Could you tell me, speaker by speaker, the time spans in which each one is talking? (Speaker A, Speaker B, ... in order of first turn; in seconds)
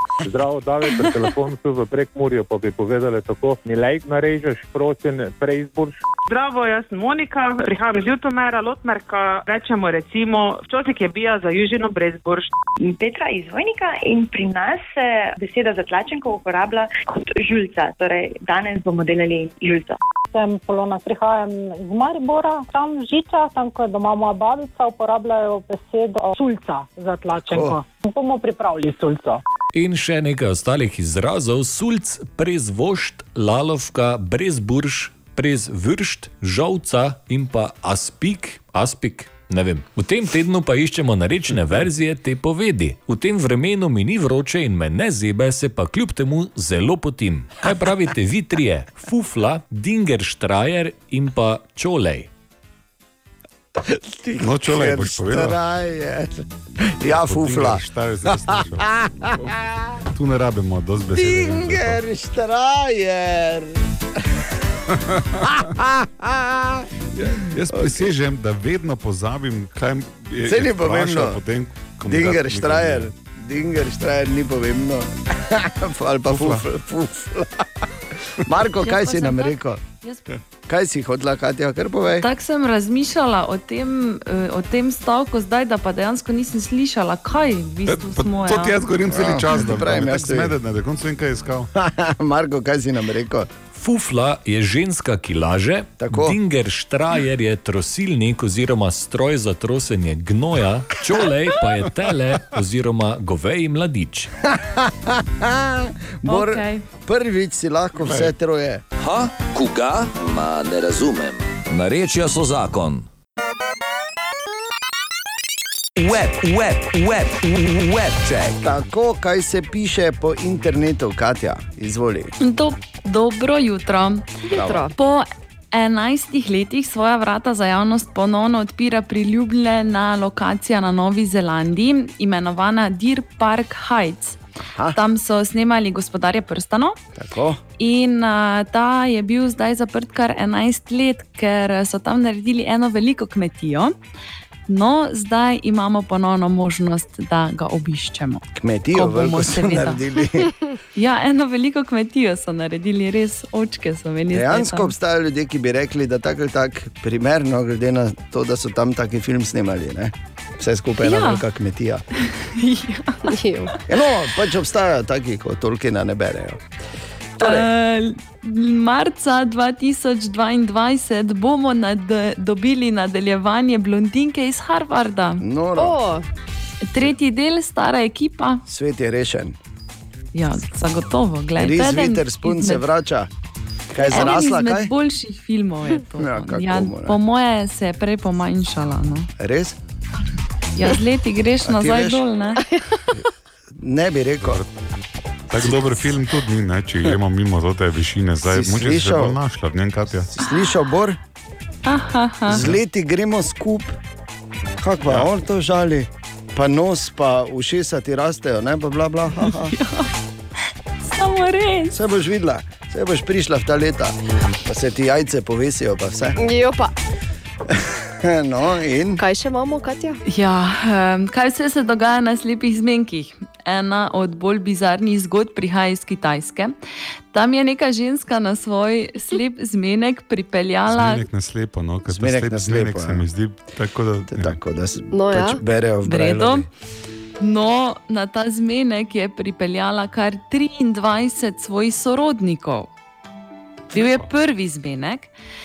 Speaker A: 0.2-6.0
Speaker B: 6.3-12.5
Speaker C: 12.8-20.0
Speaker D: 20.3-29.4
Speaker E: 27.4-27.8, 53.8-60.0, 61.1-64.8, 65.4-68.1, 70.4-71.4, 72.1-79.8, 80.7-82.2, 89.1-90.6, 91.7-93.5, 96.0-96.4, 104.5-108.8, 118.6-122.3, 124.5-124.9, 137.2-137.6, 148.5-150.5, 154.3-162.0, 163.9-166.6, 167.4-167.7, 175.4-176.0, 178.7-179.6, 181.6-183.3, 183.9-184.9, 186.2-187.2, 189.4-189.8, 191.6-192.2, 193.8-194.6, 198.5-199.4, 200.2-201.2, 202.5-204.0, 204.8-209.7, 211.9-216.4, 217.7-219.2, 232.1-233.2, 234.3-236.7
Speaker F: 29.7-52.3, 93.7-104.3
Speaker G: 54.4-55.6, 57.0-59.5, 60.1-62.0, 65.1-65.6, 67.2-73.1, 76.3-76.6, 87.9-91.7, 108.0-108.3, 194.4-194.7, 195.5-200.3, 230.9-234.6
Speaker H: 78.8-80.4, 82.2-88.8, 106.3-106.8, 122.4-124.3, 125.0-134.4, 134.9-137.0, 137.8-143.9, 144.7-150.0, 151.0-154.9, 161.0-161.4, 162.3-163.4, 167.4-175.4, 176.9-178.6, 180.3-182.8, 184.1-189.3, 190.8-192.6, 201.9-202.6, 209.5-210.1, 211.1-212.0, 220.3-226.8, 227.3-231.2, 236.1-236.7, 237.4-242.9, 243.9-245.3
Speaker I: 109.0-113.1, 116.0-118.7
Speaker J: 124.5-124.9, 163.3-163.8, 175.8-176.2, 192.7-193.1, 216.4-216.9, 219.2-220.2, 235.1-235.6